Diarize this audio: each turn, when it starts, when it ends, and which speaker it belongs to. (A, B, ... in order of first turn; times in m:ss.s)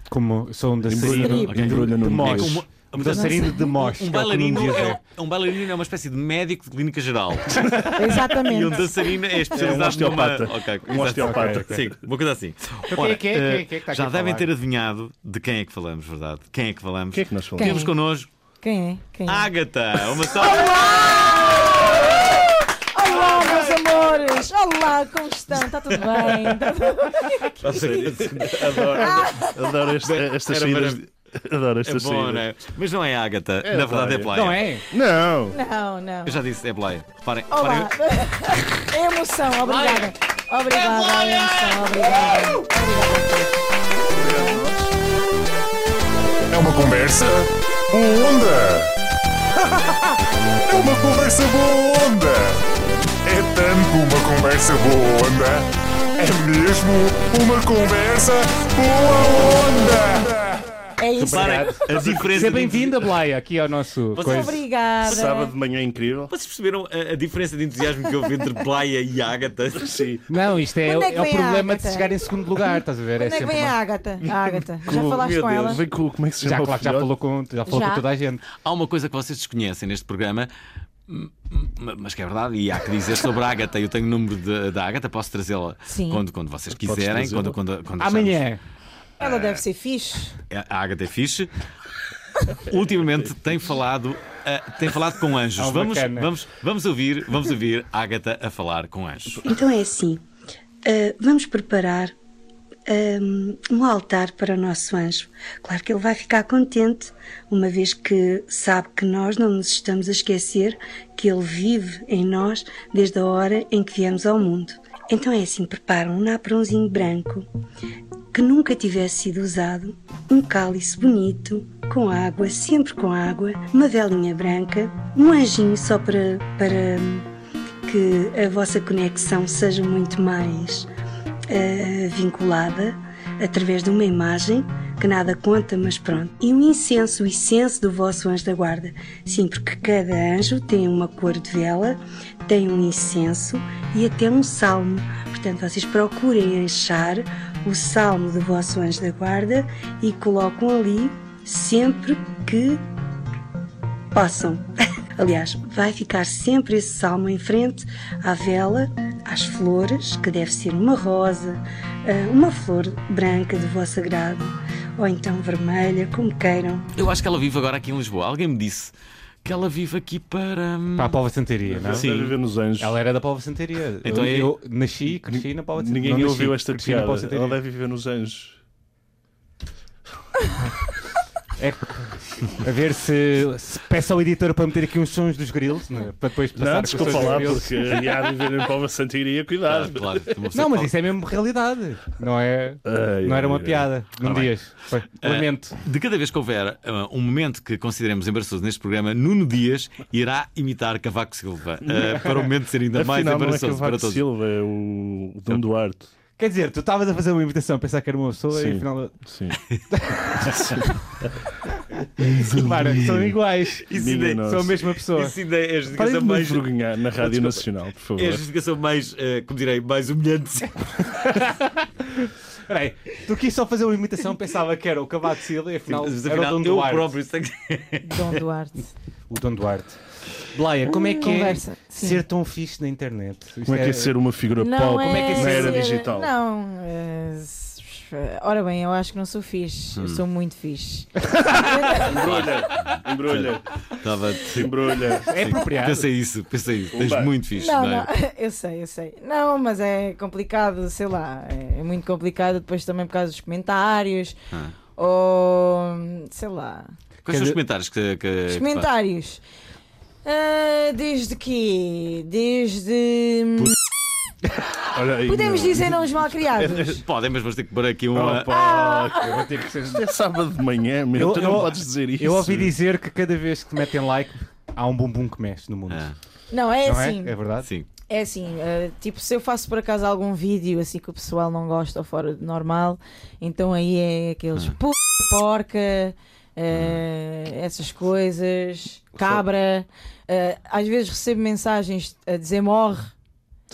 0:00.1-0:05.0 A
0:00.8-0:02.6 B
0:01.0-0:01.7 C
0:01.5-0:18.3 D
0:03.0-0:03.7 C
0:07.9-0:08.9 C
0:09.5-0:11.9 B
0:09.8-0:10.2 A
0:11.0-0:11.8 A
0:12.9-0:14.5 A
0:17.1-0:17.9 B
0:17.6-0:17.9 C
0:18.6-0:19.5 C
0:19.2-0:22.4 D
0:20.3-0:29.7 C
0:23.1-0:24.1 D
0:25.9-0:26.6 D
0:27.6-0:29.2 D
0:27.8-0:32.4 B
0:30.0-0:31.0 D
0:31.8-0:34.6 D
0:33.6-0:35.6 B
0:34.3-0:34.8 A
0:35.5-0:36.4 C
0:36.2-0:37.9 D
0:37.5-0:43.5 C
0:39.8-0:40.1 A
0:44.1-0:44.9 B
0:44.2-0:44.6 C
0:46.5-0:48.9 E
0:49.7-0:50.0 E
0:50.7-0:52.6 E
0:53.2-1:00.6 E
1:01.0-1:01.6 C
1:01.2-1:04.6 A
1:01.3-1:03.1 D
1:01.9-1:02.5 B
1:04.1-1:04.6 D
1:04.2-1:05.5 C
1:05.0-1:06.3 B
1:06.3-1:10.0 D
1:09.7-1:10.3 B
1:10.3-1:13.8 A
1:10.8-1:15.8 C
1:14.3-1:17.1 B
1:16.4-1:18.4 A
1:17.6-1:18.0 C
1:18.6-1:20.5 D
1:21.1-1:28.4 D
1:25.9-1:26.2 C
1:26.7-1:27.6 B
1:28.0-1:28.6 A
1:29.2-1:30.4 C
1:29.2-1:29.6 D
1:30.5-1:31.5 D
1:32.5-1:39.4 D
1:35.6-1:36.3 A
1:39.4-1:40.2 F
1:40.8-1:42.1 F
1:42.9-1:57.4 F
1:58.3-2:07.3 F
2:07.8-2:10.9 F
2:11.5-2:32.8 F
2:34.1-2:46.8 F
2:46.9-2:48.9 D
2:49.4-2:51.2 D
2:51.0-2:52.1 A
2:51.7-2:53.0 B
2:51.9-2:52.3 D
2:52.8-2:57.6 A
2:54.0-2:54.5 D
2:55.2-2:58.6 B
3:01.6-3:07.7 A
3:06.6-3:10.3 B
3:09.7-3:10.9 D
3:10.5-3:15.8 A
3:12.8-3:13.9 B
3:14.2-3:24.2 D
3:22.9-3:26.1 B
3:26.4-3:29.2 A
3:28.5-3:29.6 B
3:29.9-3:30.5 A
3:30.4-3:31.3 B
3:32.2-3:33.4 B
3:32.5-3:33.8 A
3:33.8-3:36.6 D
3:33.9-3:34.8 B
3:34.5-3:35.3 A
3:36.0-3:36.3 A
3:36.1-3:38.4 B
3:37.2-3:37.6 D
3:38.2-3:41.2 D
3:41.2-3:47.1 A
3:45.9-3:48.4 D
3:48.0-3:48.9 C
3:49.3-3:54.1 A
3:51.1-3:52.2 C
3:53.6-3:56.3 B
3:54.6-4:02.5 C
3:55.0-3:56.0 A
4:00.0-4:00.2 D
4:02.0-4:03.7 B
4:02.2-4:04.8 D
4:04.5-4:05.3 B
4:05.3-4:06.0 A
4:05.3-4:08.1 D
4:06.9-4:07.3 B
4:07.5-4:14.4 C
4:15.0-4:16.9 C
4:17.2-4:18.9 D
4:17.3-4:17.6 A
4:18.5-4:19.4 C
4:20.2-4:23.7 C
4:24.9-4:27.0 B
4:25.2-4:27.0 C
4:26.7-4:28.6 D
4:28.1-4:32.7 B
4:28.5-4:29.5 C
4:29.2-4:30.0 A
4:31.1-4:36.1 A
4:31.3-4:31.6 D
4:35.9-4:36.1 D
4:36.5-4:37.4 C
4:36.8-4:37.7 A
4:38.1-4:53.1 C
4:46.7-4:47.0 D
4:49.2-4:49.4 B